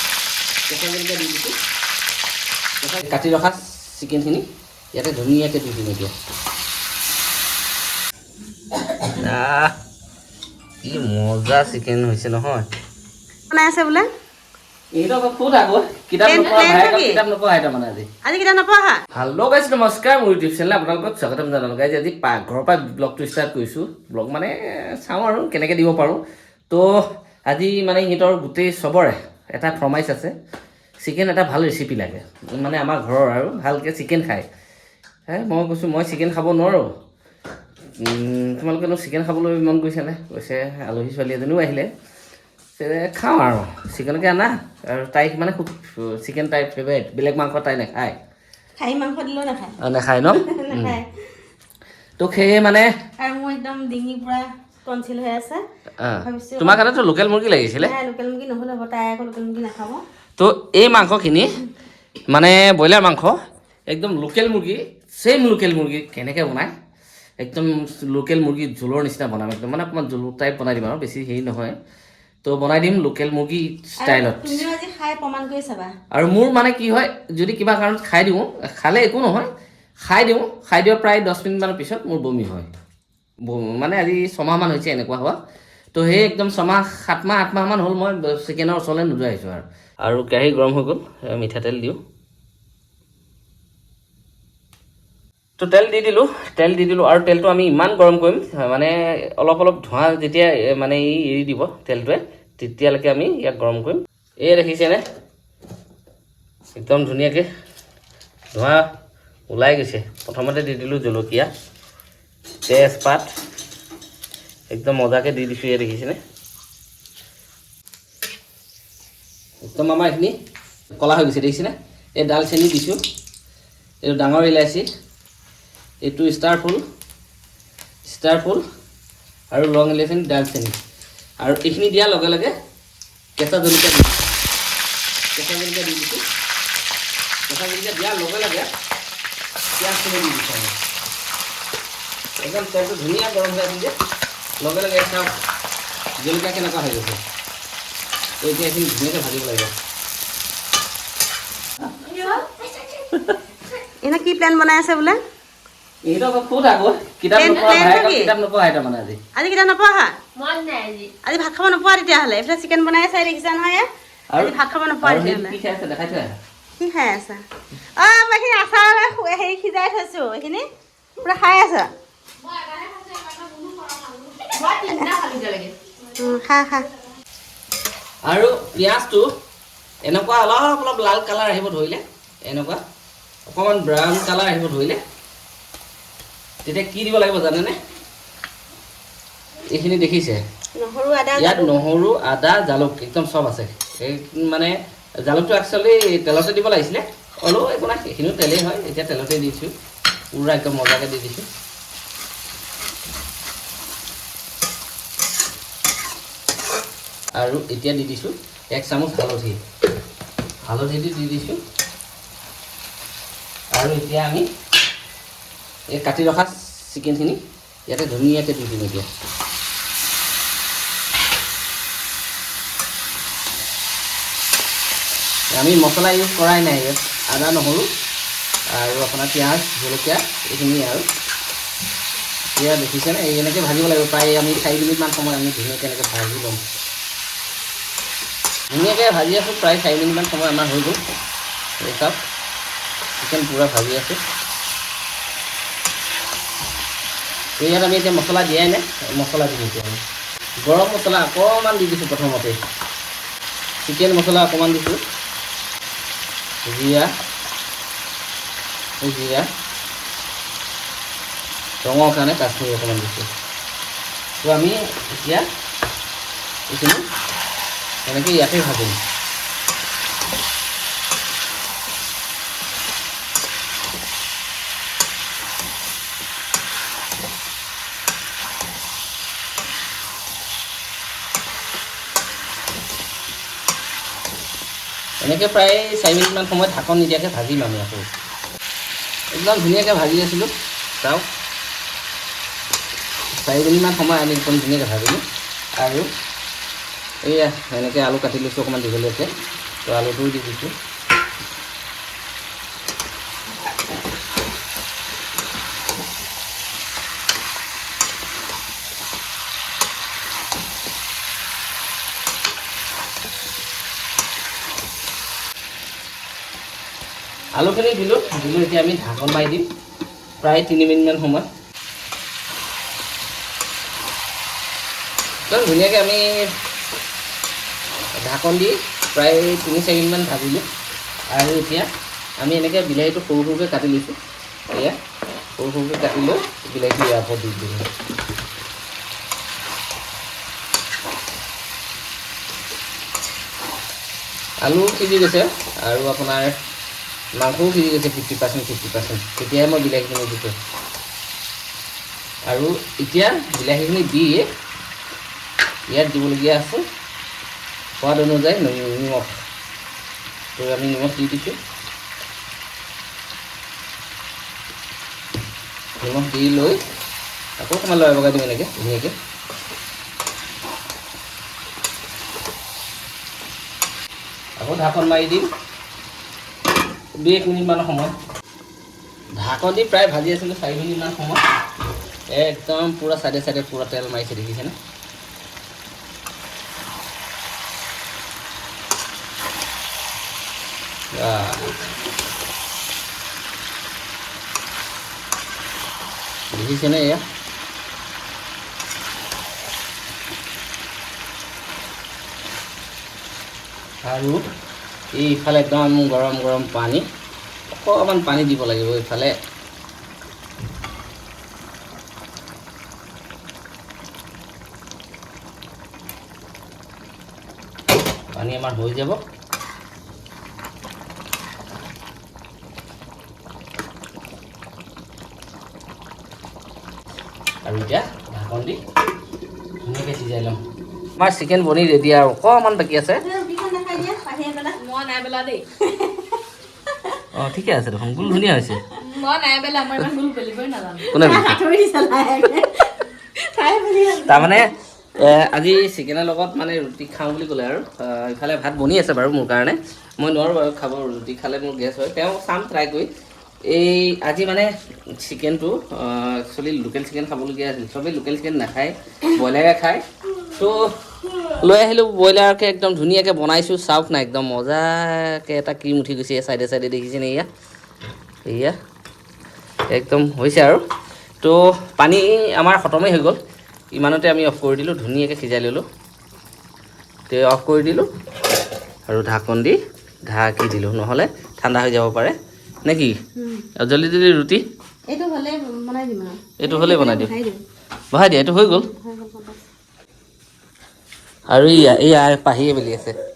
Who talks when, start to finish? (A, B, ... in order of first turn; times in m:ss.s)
0:00.7-0:01.6 A
0:02.8-0:06.1 A
0:09.1-0:09.7 A
0:10.8-0:12.6 A
0:13.5-0:14.1 B
0:14.9-0:18.1 A
0:16.2-0:17.2 B
0:18.2-0:19.0 B
0:19.1-0:30.3 A
0:31.0-0:34.4 A
0:35.3-0:36.9 A
0:38.0-0:41.9 A
0:42.8-0:48.2 A
0:48.8-0:49.8 B
0:49.8-0:51.0 A
0:50.3-0:51.2 B
0:52.2-0:52.9 A
0:53.2-0:55.6 B
0:56.0-0:57.9 A
0:56.2-0:56.8 B
0:57.8-1:00.0 B
1:00.4-1:01.6 A
1:02.3-1:03.4 A
1:03.9-1:06.7 A
1:07.4-1:11.8 A
1:12.4-1:14.6 A
1:14.0-1:15.9 B
1:16.1-1:19.5 A
1:20.0-1:22.7 A
1:23.4-1:25.4 A
1:25.9-1:32.0 A
1:35.6-1:45.0 A
1:46.7-1:47.5 A
1:48.5-1:48.9 A
1:49.5-1:51.5 A
1:52.7-1:53.3 A
1:54.7-1:56.2 A
1:59.6-2:00.4 A
2:01.0-2:03.0 A
2:04.0-2:04.9 A
2:06.0-2:06.8 A
2:08.0-2:08.6 A
2:09.5-2:10.8 A
2:11.4-2:12.5 A
2:13.4-2:14.4 A
2:15.3-2:16.2 A
2:17.5-2:18.7 A
2:19.8-2:20.8 A
2:22.4-2:23.9 A
2:24.6-2:25.3 A
2:26.2-2:27.2 A
2:28.4-2:29.7 A
2:32.1-2:32.6 C
2:33.1-2:33.4 A
2:34.0-2:35.2 B
2:36.0-2:39.2 A
2:37.3-2:38.3 B
2:37.5-2:37.8 C
2:39.3-2:40.2 B
2:40.4-2:41.1 C
2:41.2-2:43.8 B
2:44.3-2:46.4 A
2:44.4-2:45.6 B
2:46.8-2:47.4 B
2:48.0-2:50.6 B
2:51.2-2:51.9 B
2:52.4-2:55.7 C
2:56.2-2:56.9 B
2:58.2-2:59.3 A
3:00.0-3:02.8 A
3:03.4-3:05.0 A
3:06.6-3:07.8 A
3:09.7-3:10.4 A
3:10.8-3:11.8 B
3:11.4-3:19.7 A
3:20.3-3:21.5 A
3:27.4-3:29.6 A
3:30.6-3:31.6 A
3:33.7-3:34.5 A
3:35.9-3:39.1 A
3:45.5-3:47.9 A
3:48.7-3:51.0 A
3:52.5-3:56.6 A
3:58.7-4:01.0 A
4:01.8-4:02.2 A
4:03.2-4:04.2 A
4:07.6-4:10.0 A
4:10.6-4:12.6 A
4:13.8-4:15.0 A
4:16.6-4:17.1 A
4:19.0-4:19.5 A
4:21.8-4:23.3 A
4:24.4-4:25.5 A
4:26.7-4:27.0 A
4:28.0-4:29.0 A
4:45.2-4:48.1 A
4:49.3-4:51.2 A
4:53.3-4:55.2 A
4:55.8-4:56.1 A
4:57.2-4:59.3 A
4:59.8-5:00.7 A
5:17.6-5:19.7 A
5:20.4-5:21.5 A
5:25.5-5:26.5 A
5:28.1-5:30.6 A
5:31.3-5:31.9 A
5:32.4-5:34.2 A
5:35.6-5:37.9 A
5:44.6-5:46.6 A
5:47.4-5:50.5 A
5:52.5-5:54.5 A
5:55.9-5:56.8 A
5:58.0-5:59.4 A
6:00.6-6:01.6 A
6:06.0-6:06.8 A
6:07.6-6:09.1 A
6:14.6-6:15.5 A
6:17.2-6:18.2 A
6:19.4-6:21.4 A
6:22.3-6:24.7 A
6:31.1-6:31.7 A
6:36.5-6:37.2 A
6:44.0-6:44.4 A
6:45.1-6:47.0 A
6:47.7-6:49.4 A
6:58.3-6:59.2 A
7:07.6-7:08.8 A
7:09.8-7:10.6 A
7:11.2-7:13.2 A
7:13.2-7:14.8 B
7:14.8-7:15.6 C
7:15.8-7:16.4 B
7:17.3-7:18.8 A
7:19.0-7:21.1 C
7:21.1-7:22.9 B
7:21.1-7:21.6 A
7:23.5-7:24.6 C
7:23.6-7:24.5 B
7:24.2-7:33.1 A
7:33.7-7:47.5 A
7:48.5-7:48.8 A
7:49.9-7:50.8 A
7:51.4-7:53.4 A
7:53.9-7:55.8 A
7:57.3-7:58.1 A
7:59.1-8:03.2 A
8:03.4-8:03.7 B
8:03.8-8:04.6 A
8:05.1-8:07.6 B
8:06.6-8:07.3 A
8:08.1-8:08.9 A
8:08.5-8:09.6 B
8:11.5-8:13.2 A